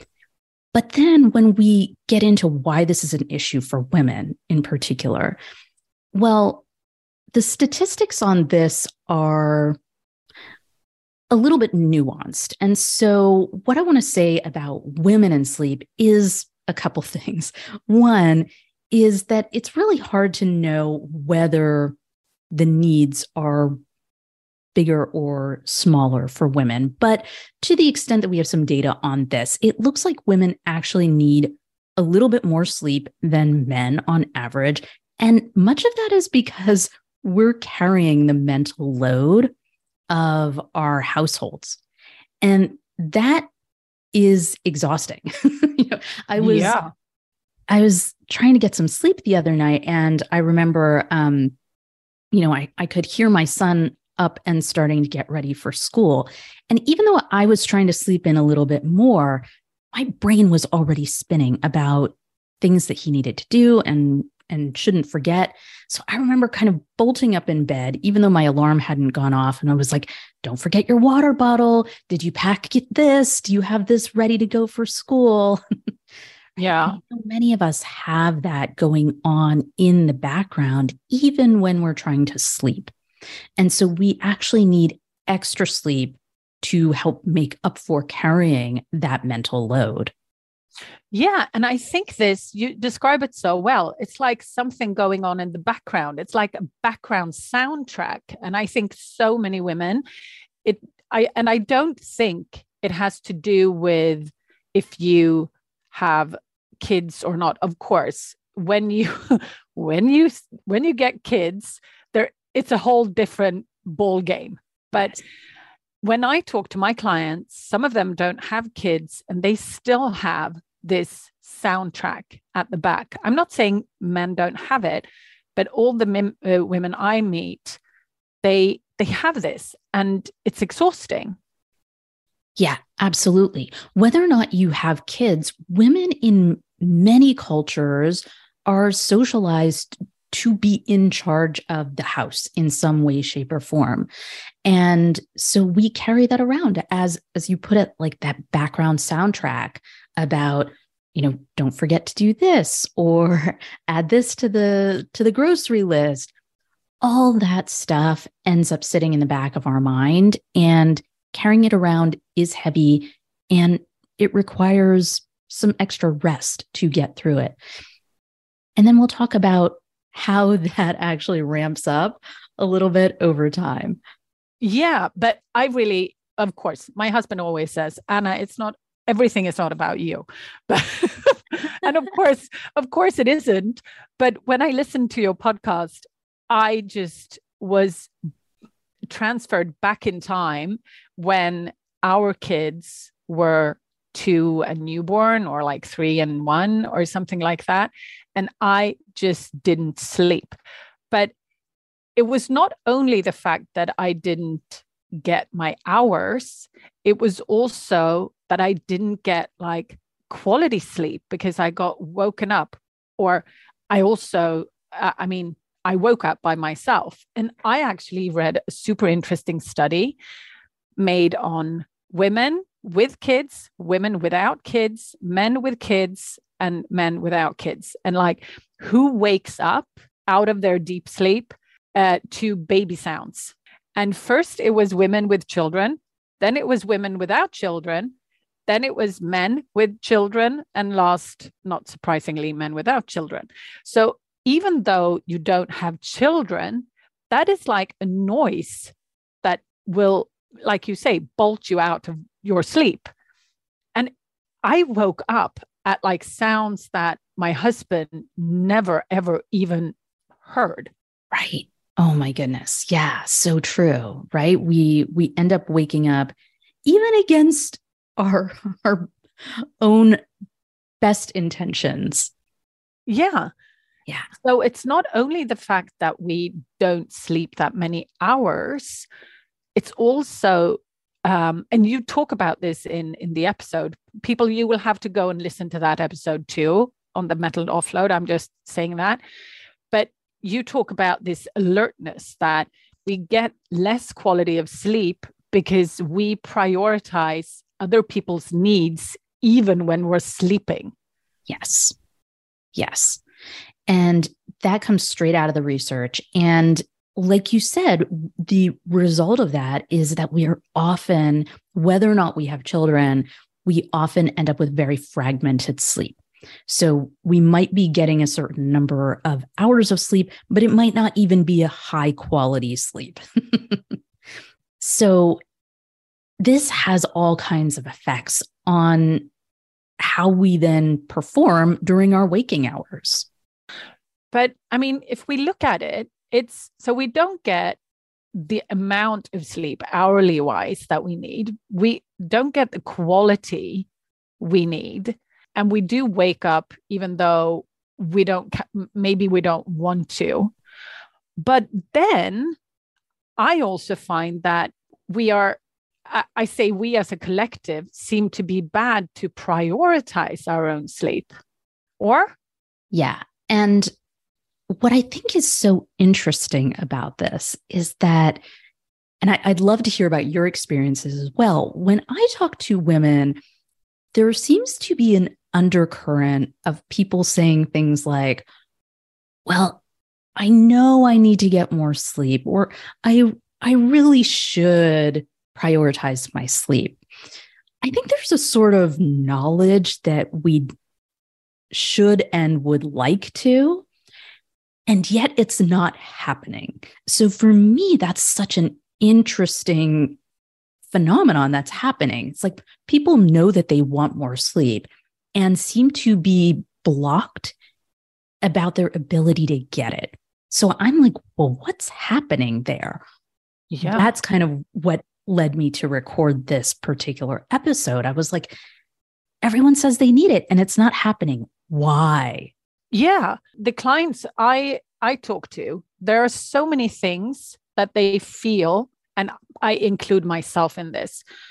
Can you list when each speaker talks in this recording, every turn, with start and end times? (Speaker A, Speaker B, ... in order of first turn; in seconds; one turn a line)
Speaker A: 0.7-5.4
Speaker A: 6.1-6.6
Speaker A: 7.3-9.8
Speaker A: 11.3-21.9
Speaker A: 22.5-23.8
Speaker A: 24.7-39.5
Speaker A: 40.1-41.8
Speaker A: 42.4-43.5
Speaker A: 44.1-46.7
Speaker B: 46.4-46.9
Speaker A: 47.7-51.5
Speaker A: 52.3-75.6
Speaker B: 76.6-77.0
Speaker A: 76.8-82.9
Speaker A: 83.6-90.1
Speaker B: 91.1-100.0
Speaker B: 100.6-115.2
Speaker B: 116.0-127.8
Speaker B: 128.4-131.3
Speaker A: 132.6-144.1
Speaker A: 144.6-156.3
Speaker A: 157.0-167.6
Speaker A: 168.8-174.0
Speaker B: 174.6-188.1
Speaker B: 189.1-200.6
Speaker B: 202.2-220.2
Speaker B: 221.0-238.1
Speaker B: 238.7-248.9
Speaker B: 249.4-253.1
Speaker B: 254.6-260.9
Speaker A: 261.3-266.3
Speaker A: 266.8-270.2
Speaker A: 271.0-272.3
Speaker B: 273.1-273.5
Speaker B: 274.4-279.1
Speaker B: 279.8-289.2
Speaker B: 289.9-300.9
Speaker A: 301.5-301.9
Speaker A: 302.7-303.2
Speaker A: 303.9-323.9
Speaker A: 324.8-325.4
Speaker A: 326.4-329.3
Speaker A: 330.0-333.3
Speaker B: 334.3-337.8
Speaker B: 338.3-343.9
Speaker B: 344.4-350.5
Speaker B: 351.4-352.6
Speaker B: 353.4-361.3
Speaker B: 362.0-362.3
Speaker A: 362.9-363.9
Speaker A: 364.7-368.4
Speaker A: 369.2-373.4
Speaker A: 374.1-378.5
Speaker A: 379.4-379.8
Speaker A: 380.4-387.0
Speaker A: 387.8-390.7
Speaker A: 391.7-393.9
Speaker A: 394.9-400.2
Speaker A: 400.9-407.5
Speaker A: 408.4-413.0
Speaker B: 413.7-414.1
Speaker A: 413.9-418.5
Speaker A: 419.4-422.5
Speaker B: 422.9-431.2